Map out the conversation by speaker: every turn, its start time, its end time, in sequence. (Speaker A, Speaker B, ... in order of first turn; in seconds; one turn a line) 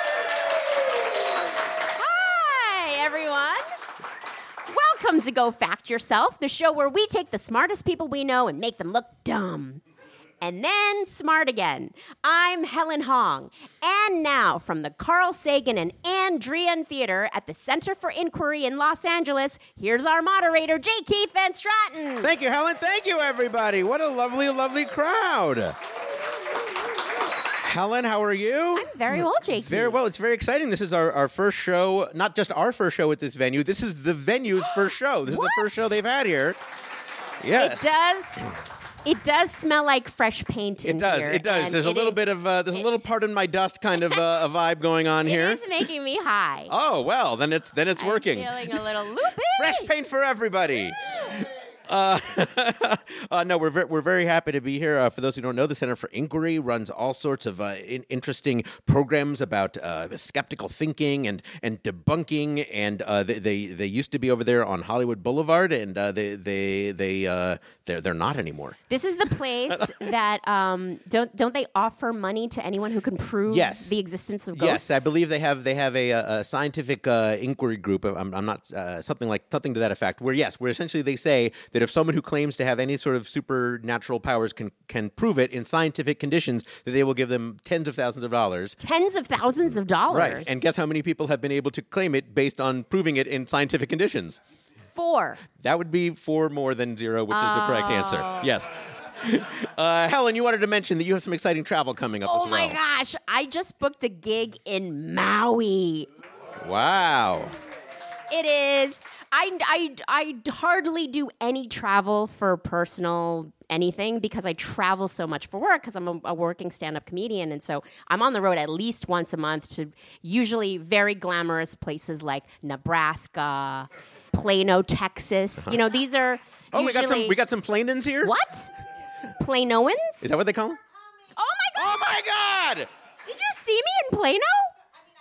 Speaker A: 1.9-3.6
Speaker A: 4.7-9.8
Speaker A: 10.4-22.3
Speaker B: 22.2-25.8
Speaker B: 27.6-36.6
Speaker A: 28.8-30.0
Speaker A: 35.3-35.9
Speaker B: 37.4-37.9
Speaker A: 37.6-42.2
Speaker B: 40.8-45.6
Speaker A: 45.2-46.7
Speaker B: 46.7-48.9
Speaker A: 48.0-49.9
Speaker B: 49.5-51.0
Speaker B: 51.9-68.8
Speaker A: 68.9-75.1
Speaker B: 69.7-70.0
Speaker B: 73.5-74.0
Speaker B: 74.5-88.8
Speaker A: 88.8-90.6
Speaker B: 90.1-94.4
Speaker A: 94.9-95.4
Speaker B: 95.5-98.7
Speaker A: 97.3-98.5
Speaker B: 99.2-102.8
Speaker A: 102.2-106.1
Speaker B: 106.6-107.5
Speaker A: 108.3-127.3
Speaker B: 126.7-128.3
Speaker A: 128.2-128.7
Speaker A: 129.4-130.2
Speaker B: 130.2-130.8
Speaker A: 131.3-132.2
Speaker B: 131.8-132.9
Speaker A: 133.2-134.7